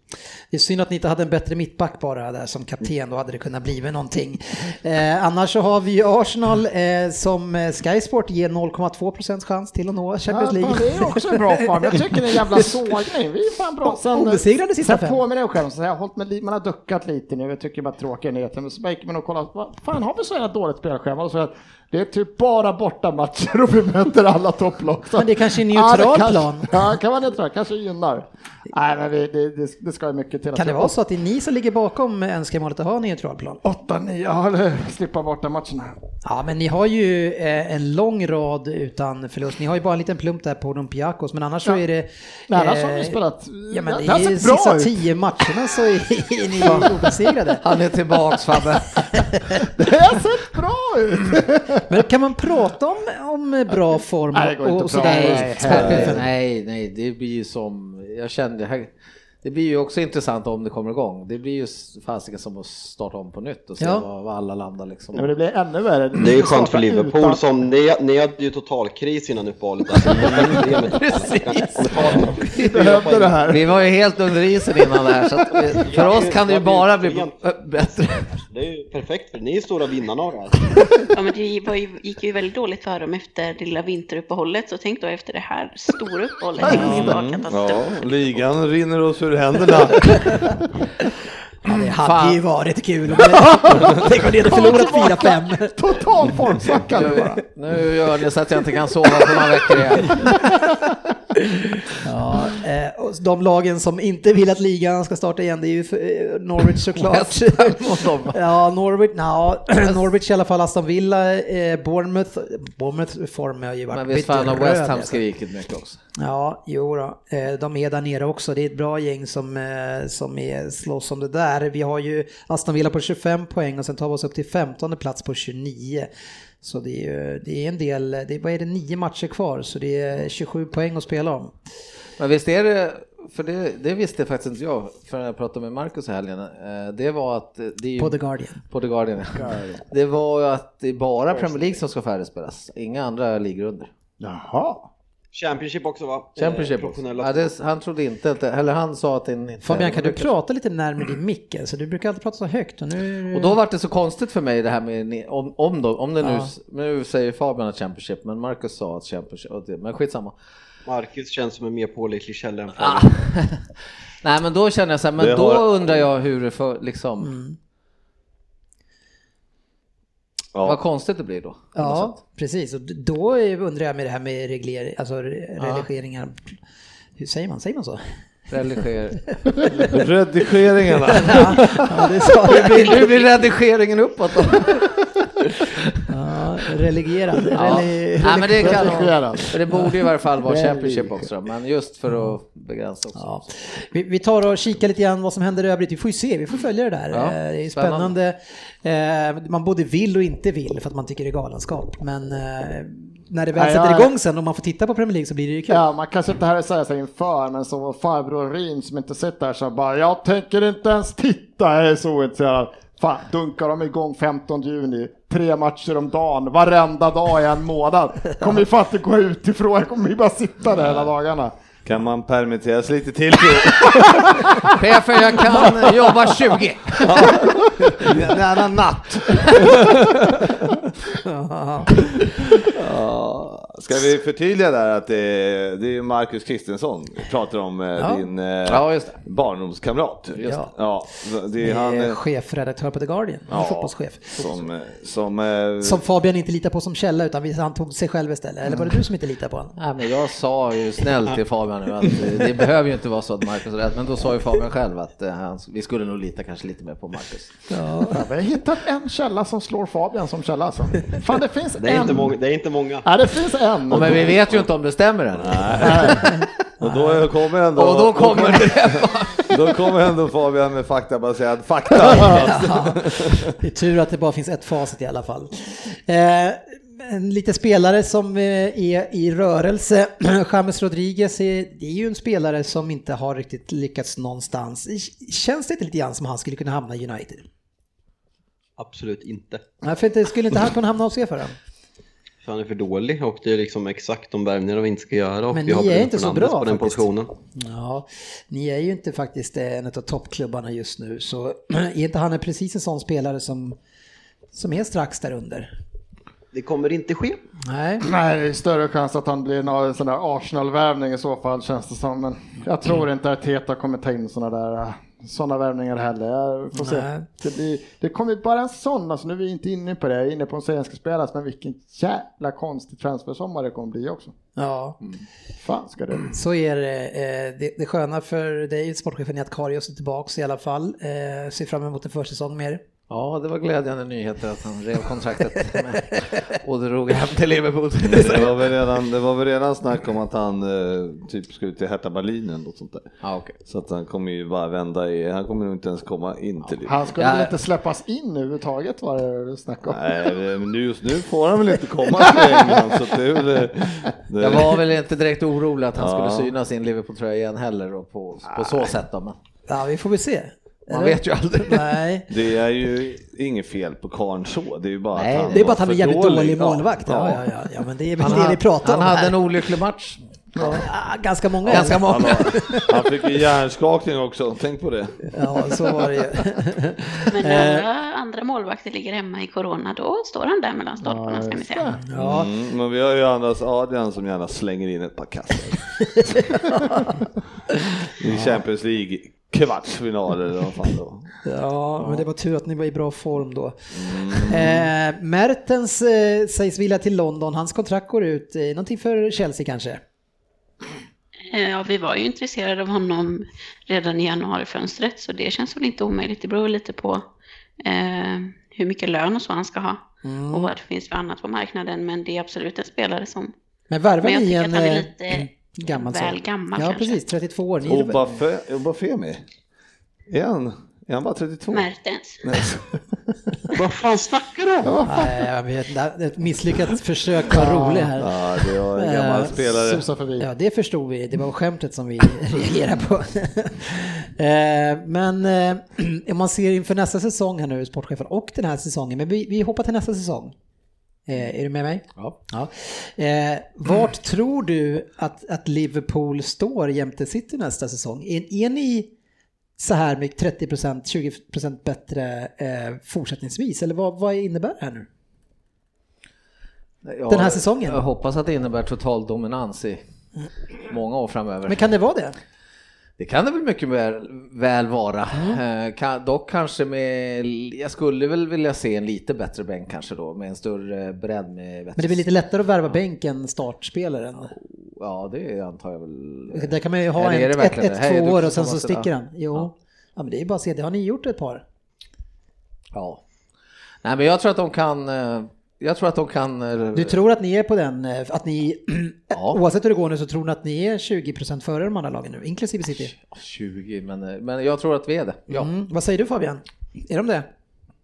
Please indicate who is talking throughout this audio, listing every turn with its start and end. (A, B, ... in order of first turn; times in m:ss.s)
0:00.5-0:12.0 A
0:10.3-0:30.9 B
0:13.8-0:15.2 A
0:25.2-0:26.8 A
0:30.6-0:33.6 A
0:33.6-0:35.9 B
0:36.2-0:43.2 A
0:42.5-0:45.0 B
0:43.7-0:47.6 A
0:46.6-0:47.0 B
0:47.6-0:49.3 C
0:49.1-0:49.6 A
0:49.8-0:51.8 B
0:51.9-0:56.2 A
0:54.3-0:56.2 B
0:55.0-0:58.9 C
0:59.4-1:05.3 C
1:03.8-1:04.0 A
1:05.1-1:07.4 B
1:06.2-1:13.9 D
1:09.9-1:12.7 C
1:12.4-1:13.6 B
1:13.4-1:18.4 C
1:15.5-1:17.3 D
1:18.4-1:20.7 D
1:21.1-1:27.9 E
1:26.6-1:27.0 B
1:26.7-1:30.2 F
1:31.6-1:35.7 A
1:32.0-1:32.4 C
1:33.6-1:37.4 B
1:36.9-1:40.5 C
1:42.0-1:55.2 A
1:46.9-1:48.4 C
1:53.9-1:56.0 C
1:56.2-2:06.1 A
2:06.6-2:11.5 A
2:12.2-2:23.9 C
2:18.0-2:18.6 A
2:19.3-2:19.8 B
2:24.2-2:24.9 B
2:25.3-2:27.5 D
2:26.4-2:30.3 C
2:29.6-2:33.6 A
2:33.3-2:40.4 C
2:36.2-2:36.5 A
2:40.9-2:43.2 D
2:42.8-2:43.6 C
2:44.2-2:47.3 C
2:45.2-2:46.1 F
2:47.2-2:47.6 A
2:50.5-2:50.8 F
2:50.6-2:52.1 C
2:51.7-2:56.5 A
2:55.6-2:55.9 C
2:57.2-2:58.0 A
2:58.5-2:59.2 C
2:59.3-2:59.9 A
2:59.8-3:01.9 F
3:01.1-3:03.2 A
3:02.4-3:05.0 C
3:06.1-3:09.1 A
3:07.5-3:13.4 C
3:08.4-3:09.6 B
3:10.4-3:11.3 B
3:13.2-3:25.8 A
3:17.1-3:18.1 C
3:23.5-3:24.1 B
3:25.7-3:41.5 B
3:40.7-3:41.1 F
3:41.8-3:44.4 F
3:44.6-3:47.4 C
3:47.0-3:50.8 F
3:51.2-3:52.0 A
3:52.6-4:02.2 F
3:58.0-3:58.2 A
3:58.7-3:59.2 C
4:00.4-4:00.7 A
4:01.6-4:04.5 A
4:03.5-4:06.0 F
4:05.8-4:09.7 A
4:09.8-4:17.6 C
4:17.7-4:18.2 A
4:18.1-4:22.3 B
4:21.8-4:23.0 D
4:23.0-4:24.1 B
4:23.9-4:24.7 F
4:23.9-4:26.2 C
4:25.4-4:26.3 F
4:25.8-4:26.2 B
4:26.8-4:33.5 F
4:27.8-4:29.6 C
4:32.2-4:47.4 A
4:48.8-4:49.6 D
4:49.8-4:51.5 A
4:52.4-4:57.3 D
4:55.5-4:57.0 A
4:57.6-5:03.8 A
5:04.5-5:05.7 A
5:06.5-5:07.4 D
5:07.7-5:08.0 A
5:08.0-5:24.3 B
5:16.8-5:17.2 A
5:24.6-5:25.0 A
5:25.6-5:26.3 B
5:26.2-5:32.8 A
5:33.1-5:38.7 C
5:38.1-5:43.1 F
5:43.2-5:43.6 C
5:43.6-5:47.0 F
5:46.6-5:47.5 C
5:46.8-5:50.0 B
5:49.9-5:54.8 F
5:54.4-5:59.4 C
5:56.0-5:56.5 F
5:58.5-5:58.9 F
5:59.7-6:02.2 A
6:00.9-6:02.0 C
6:02.3-6:07.5 F
6:05.1-6:05.5 C
6:05.5-6:09.4 A
6:08.2-6:10.2 C
6:10.6-6:12.9 A
6:11.6-6:12.5 C
6:11.7-6:15.8 F
6:15.3-6:17.8 A
6:17.3-6:22.0 E
6:21.0-6:22.0 B
6:22.1-6:22.5 A
6:22.1-6:25.8 F
6:26.2-6:27.2 A
6:28.2-6:31.3 F
6:31.4-6:40.0 A
6:33.9-6:34.9 F
6:41.5-6:47.2 E
6:47.8-6:53.5 E
6:50.2-6:50.7 A
6:53.9-6:58.2 A
6:54.2-6:57.2 E
6:57.8-6:59.4 F
7:00.3-7:01.9 F
7:01.7-7:02.4 E
7:02.4-7:02.9 F
7:03.7-7:05.0 D
7:04.8-7:05.3 B
7:05.0-7:08.3 A
7:07.5-7:08.1 B
7:08.2-7:10.0 F
7:08.9-7:09.5 A
7:09.5-7:10.4 B
7:10.4-7:20.5 A
7:21.3-7:29.1 A
7:29.8-7:35.1 A
7:37.0-7:40.0 C
7:37.3-7:38.0 A
7:40.9-7:41.8 C
7:41.7-7:42.4 A
7:43.2-7:52.3 C
7:45.3-7:45.6 A
7:52.0-7:54.5 A
7:54.5-7:59.7 C
7:56.5-8:01.6 A
8:02.9-8:03.2 C
8:04.0-8:07.2 C
8:06.9-8:13.1 A
8:09.3-8:09.6 C
8:12.9-8:15.7 C
8:15.5-8:17.5 A